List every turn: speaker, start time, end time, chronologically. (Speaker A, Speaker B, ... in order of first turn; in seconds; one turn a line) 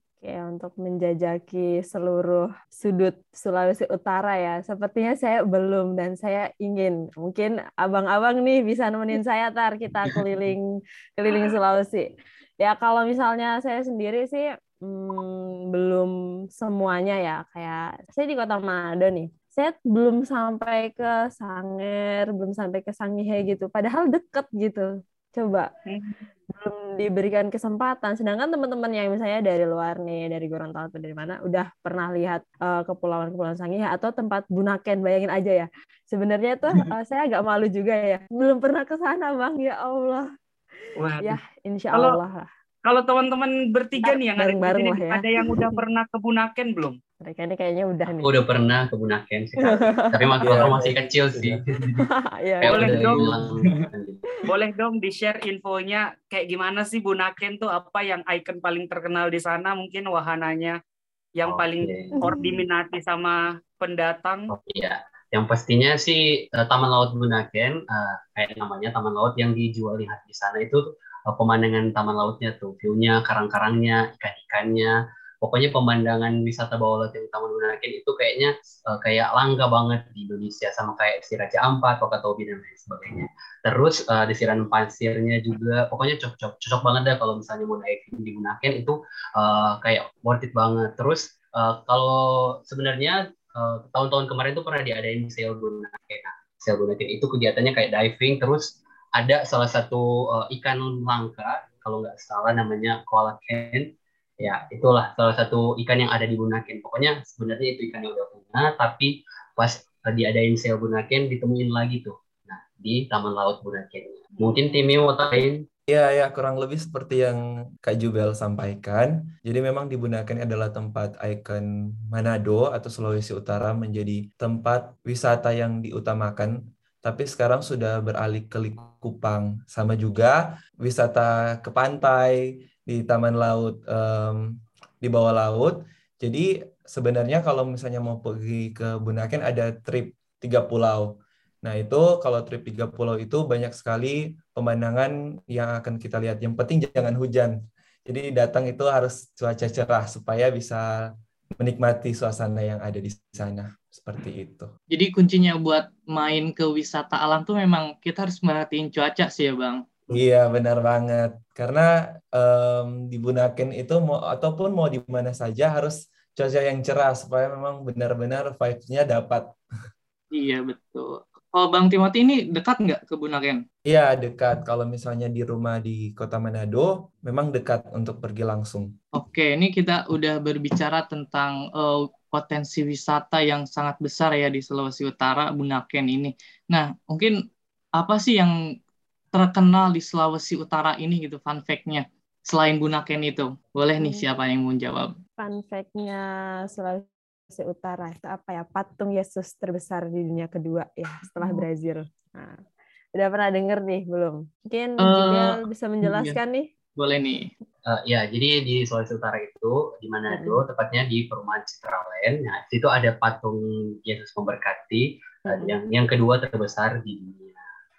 Speaker A: 0.2-10.6
Speaker A: 11.2-12.1
Speaker A: 12.6-25.7
Speaker B: 25.9-26.2
Speaker A: 26.5-40.3
Speaker B: 41.0-41.4
Speaker A: 41.2-42.5
Speaker B: 42.8-47.0
Speaker A: 44.0-45.8
Speaker A: 47.2-48.4
Speaker C: 48.2-52.1
Speaker A: 49.6-50.2
Speaker D: 50.4-51.6
Speaker A: 52.0-52.9
Speaker C: 52.6-54.2
Speaker B: 52.6-53.3
Speaker E: 53.1-53.9
Speaker B: 54.5-60.8
Speaker B: 61.4-64.5
Speaker C: 61.5-62.5
Speaker A: 62.2-62.6
Speaker C: 64.5-115.7
Speaker D: 115.9-150.9
Speaker D: 151.6-154.7
Speaker E: 154.9-160.1
Speaker D: 160.1-169.5
Speaker E: 170.3-173.6
Speaker D: 173.8-178.9
Speaker E: 179.1-187.3
Speaker E: 188.0-188.5
Speaker E: 189.3-195.1
Speaker A: 194.0-194.2
Speaker A: 195.4-202.6
Speaker A: 203.2-206.7
Speaker E: 205.0-206.4
Speaker E: 206.9-207.5
Speaker C: 207.8-217.6
Speaker A: 210.3-210.6
Speaker A: 215.5-215.7